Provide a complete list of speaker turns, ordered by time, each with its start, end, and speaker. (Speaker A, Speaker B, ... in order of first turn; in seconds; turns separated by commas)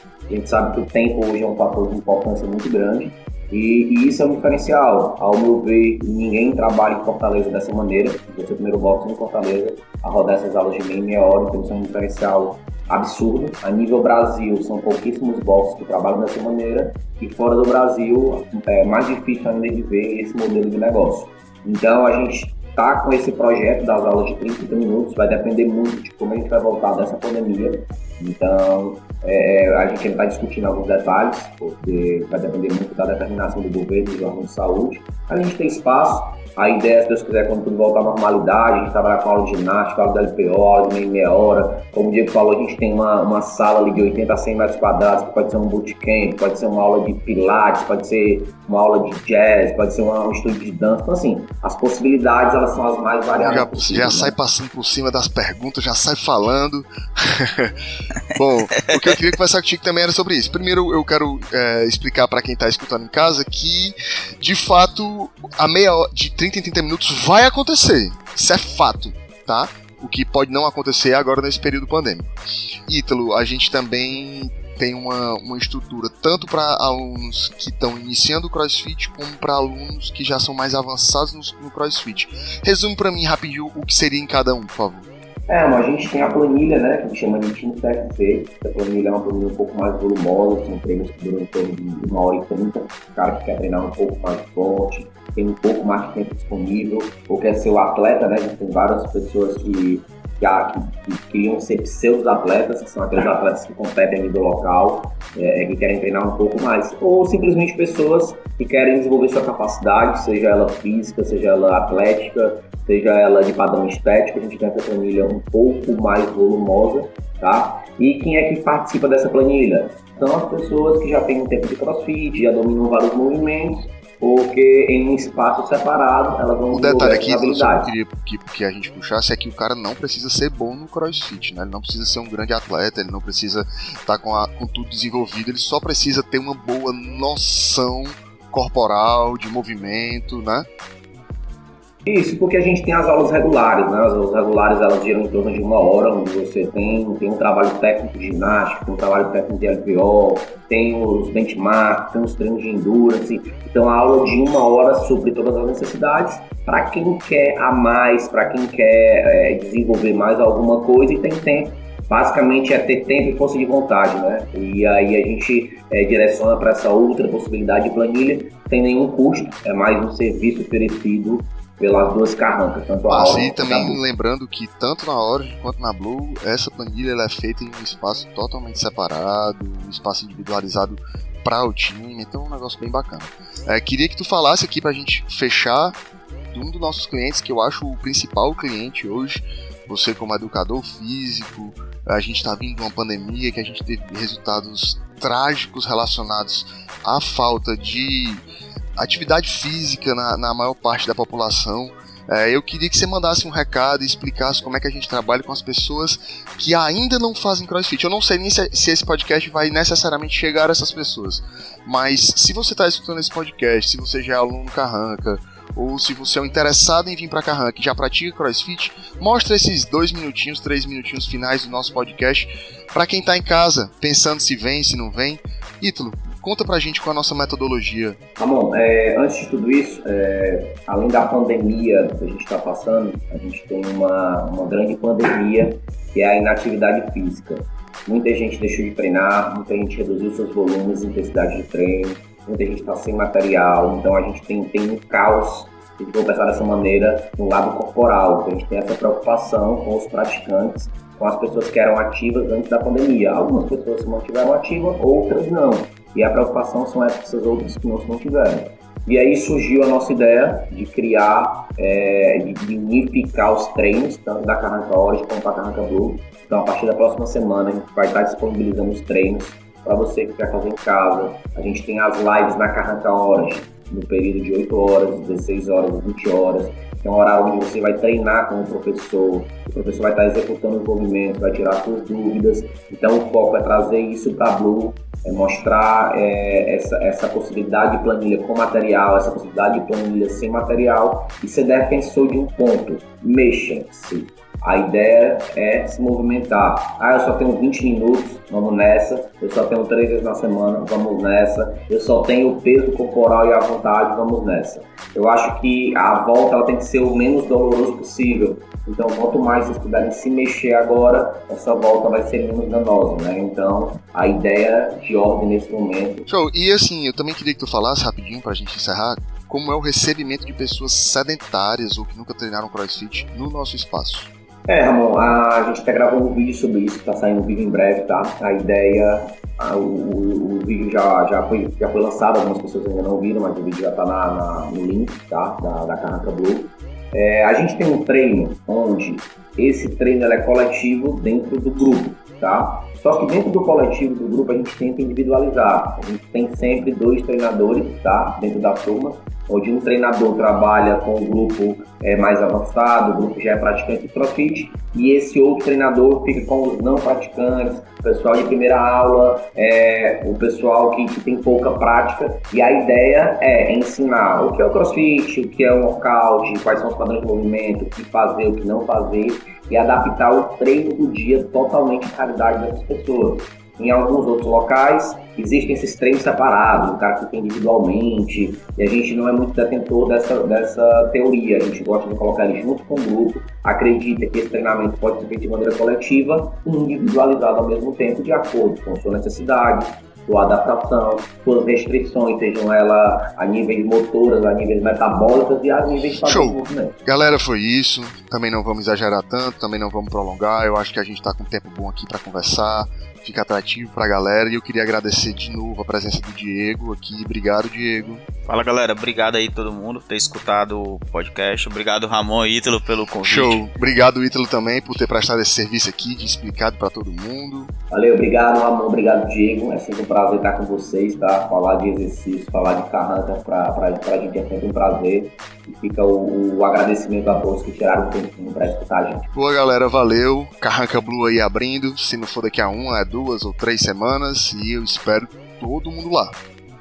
Speaker A: 0.3-54.4, Speaker B: 53.3-57.8, Speaker B: 58.4-72.3, Speaker C: 58.4-59.2, Speaker B: 72.9-85.1, Speaker A: 85.5-127.9, Speaker B: 126.7-140.7, Speaker A: 142.1-174.0, Speaker B: 173.1-186.0, Speaker B: 186.5-198.4, Speaker B: 199.0-228.2, Speaker A: 228.4-316.3, Speaker B: 316.3-324.3, Speaker A: 324.7-396.9, Speaker B: 396.2-408.2, Speaker C: 408.5-413.7, Speaker B: 413.2-417.7, Speaker A: 417.9-429.3, Speaker B: 429.3-436.4